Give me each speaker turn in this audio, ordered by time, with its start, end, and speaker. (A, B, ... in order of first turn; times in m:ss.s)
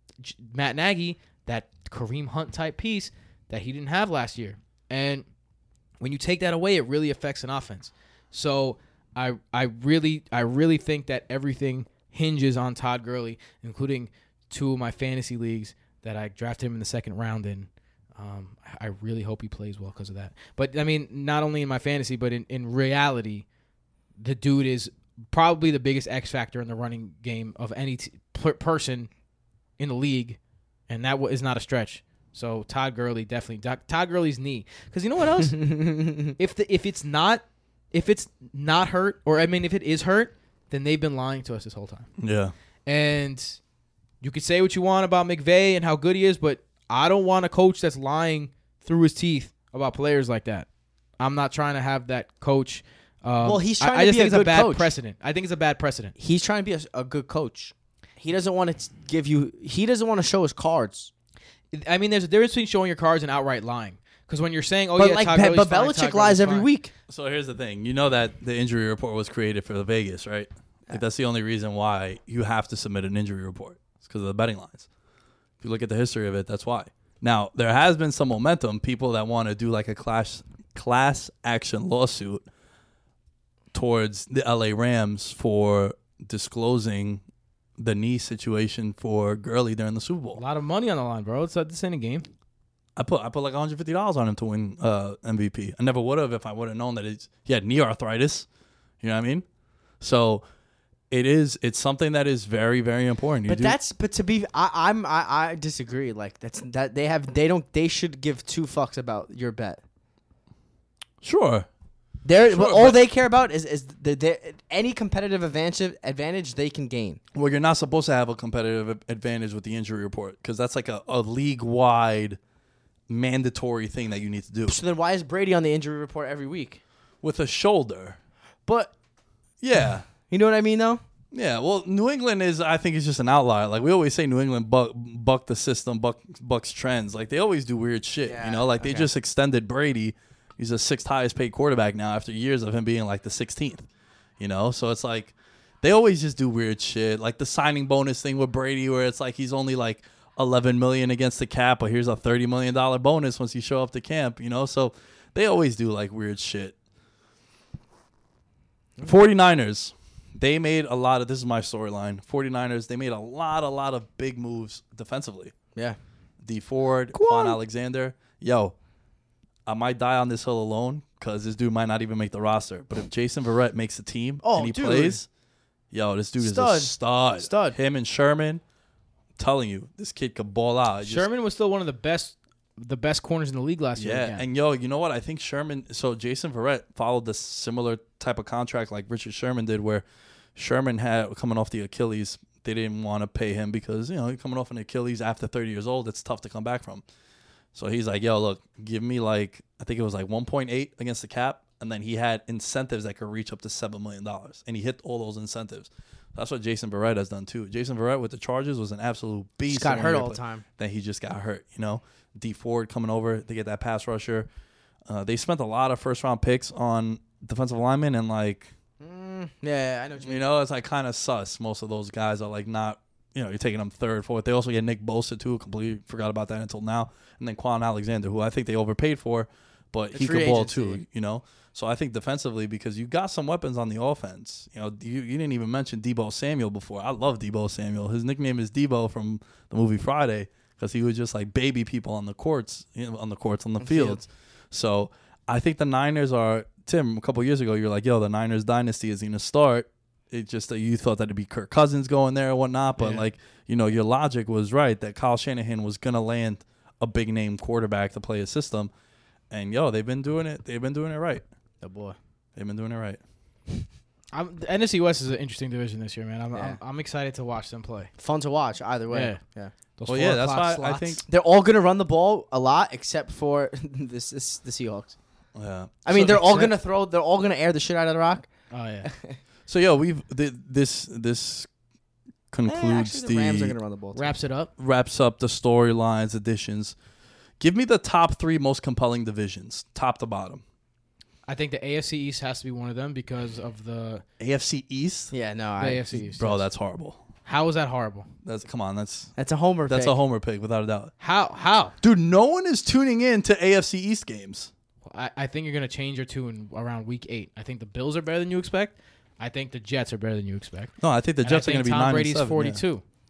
0:00.2-0:05.2 A
0:06.0-0:23.5 A
0:24.2-0:29.1 A
0:29.8-0:30.4 A
0:30.9-0:35.8 A
0:35.6-0:36.1 B
0:36.4-0:42.1 A
0:42.2-0:42.5 C
0:42.9-0:43.6 A
0:44.2-0:50.7 A
0:51.2-0:56.1 A
0:53.4-0:54.9 B
0:56.2-1:01.1 B
1:01.7-1:06.7 A
1:05.0-1:06.9 B
1:07.1-1:14.9 C
1:15.6-1:22.4 C
1:23.7-1:27.2 C
1:27.8-1:30.4 C
1:30.4-1:32.3 A
1:33.0-1:38.5 C
1:39.0-1:39.4 C
1:40.0-1:40.4 C
1:41.1-1:43.8 C
1:43.5-1:49.8 B
1:51.2-1:51.7 C
1:52.2-1:57.2 B
1:52.4-1:53.0 C
1:57.3-2:02.4 C
2:03.1-2:04.8 C
2:04.7-2:06.8 B
2:07.2-2:08.2 C
2:08.7-2:08.9 B
2:09.6-2:10.0 C
2:10.3-2:11.0 B
2:11.3-2:23.9 C
2:18.2-2:19.1 B
2:24.4-2:36.8 C
2:39.0-2:45.5 C
2:46.4-2:48.8 C
2:47.2-2:47.6 B
2:49.7-2:55.3 C
2:54.4-2:55.2 B
2:55.9-2:58.6 C
2:56.4-2:57.8 B
2:59.4-3:01.3 C
3:01.0-3:04.4 A
3:04.0-3:10.0 C
3:10.6-3:17.0 C
3:17.7-3:34.5 C
3:29.7-3:30.6 B
3:35.1-3:38.7 C
3:39.0-3:40.4 B
3:40.2-4:18.9 C
3:50.1-3:51.0 B
4:03.8-4:04.2 B
4:13.0-4:13.2 A
4:19.5-4:21.4 C
4:21.8-4:22.2 B
4:22.6-4:23.2 C
4:24.3-4:28.1 A
4:26.5-4:26.8 B
4:28.2-4:29.7 B
4:29.1-4:29.4 A
4:30.0-4:31.2 A
4:30.1-4:31.2 C
4:31.3-4:35.2 B
4:35.6-4:36.4 C
4:36.0-4:38.5 B
4:36.2-4:36.7 A
4:38.7-4:39.1 A
4:39.0-4:39.4 B
4:39.7-4:41.7 C
4:42.5-4:43.8 C
4:42.7-4:44.3 B
4:44.2-4:44.7 A
4:44.8-4:47.0 C
4:47.6-4:50.6 C
4:51.5-4:54.2 A
4:54.4-4:55.3 C
4:55.3-4:56.1 B
4:55.8-4:56.7 A
4:56.1-4:57.2 C
4:57.5-4:58.3 A
4:58.4-4:59.3 C
4:59.4-5:00.2 B
4:59.9-5:01.1 C
5:01.2-5:01.9 A
5:02.0-5:04.7 C
5:05.1-5:13.0 A
5:11.0-5:12.8 C